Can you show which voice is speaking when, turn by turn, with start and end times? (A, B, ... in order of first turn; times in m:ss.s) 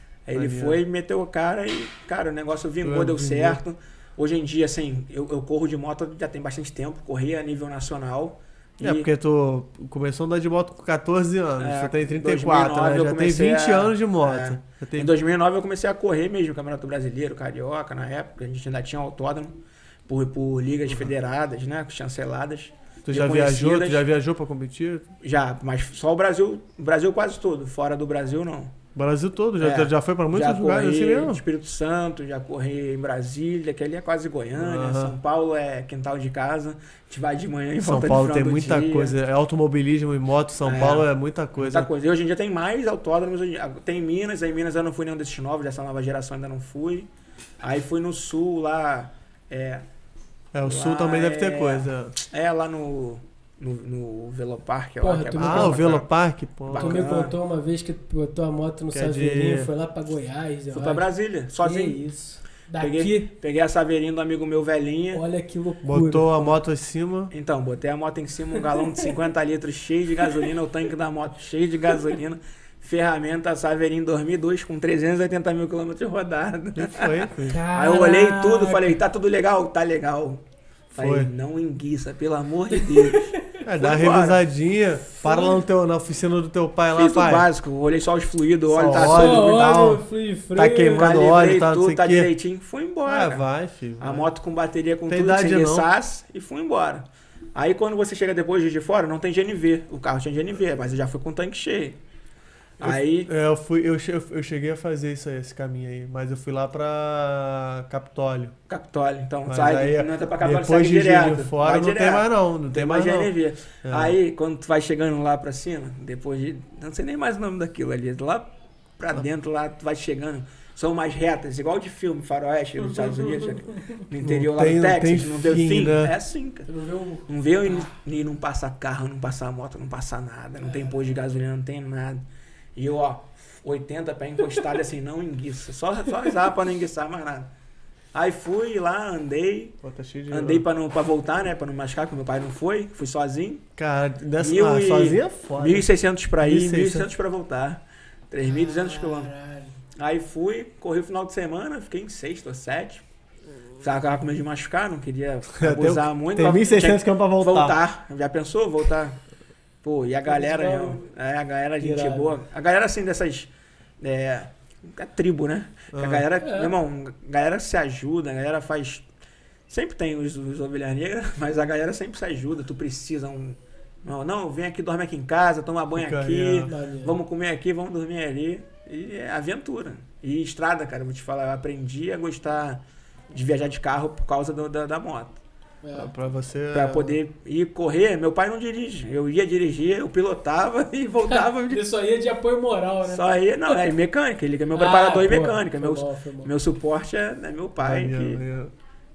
0:00.3-0:09.1 A
0:00.3-0:00.8 B
0:02.8-0:03.6 B
0:08.8-0:15.1 B
0:11.6-0:24.0 A
0:23.0-0:25.1 B
0:25.2-0:28.7 A
0:29.0-0:31.4 B
0:29.6-0:39.2 A
0:34.5-0:35.2 B
0:37.8-0:41.9 B
0:40.6-0:41.1 A
0:41.6-0:47.1 A
0:47.6-0:49.8 A
0:50.5-0:52.2 B
0:50.6-0:56.1 A
0:55.0-0:55.8 C
0:55.4-0:57.2 B
0:56.7-0:57.3 A
0:56.8-1:03.3 C
0:58.9-0:59.7 B
1:00.7-1:02.0 A
1:02.8-1:05.2 A
1:05.1-1:06.5 C
1:05.8-1:07.3 B
1:07.3-1:20.4 A
1:16.8-1:17.6 B
1:17.5-1:19.0 C
1:20.9-1:24.4 A
1:21.0-1:21.3 B
1:22.7-1:23.6 C
1:23.6-1:27.5 B
1:25.2-1:25.6 C
1:27.0-1:29.8 A
1:28.7-1:32.3 B
1:28.9-1:31.1 C
1:30.9-1:33.4 A
1:33.0-1:34.3 B
1:34.0-1:42.0 A
1:35.1-1:35.9 B
1:42.8-1:43.3 A
1:42.8-1:48.6 B
1:48.7-2:06.7 A
1:49.5-1:53.3 B
1:53.8-1:54.2 B
2:02.8-2:04.0 C
2:04.2-2:06.1 B
2:06.7-2:07.9 C
2:07.3-2:12.2 A
2:10.6-2:11.0 C
2:12.8-2:17.5 A
2:18.1-2:19.8 A
2:19.8-2:20.6 B
2:20.3-2:23.6 A
2:23.8-2:25.9 B
2:24.4-2:29.3 A
2:26.4-2:27.1 B
2:28.4-2:29.8 C
2:30.0-2:33.0 A
2:33.8-2:39.2 A
2:35.6-2:37.8 B
2:39.8-2:49.0 A
2:40.3-2:41.1 C
2:41.8-2:42.4 C
2:45.9-2:46.3 B
2:46.4-2:46.8 C
2:49.7-3:05.4 A
2:55.9-2:56.7 B
2:56.7-2:57.2 C
3:05.8-3:06.1 C
3:05.9-3:07.2 B
3:06.7-3:11.8 A
3:11.3-3:13.9 C
3:13.1-3:18.4 A
3:14.7-3:16.5 C
3:17.8-3:18.7 B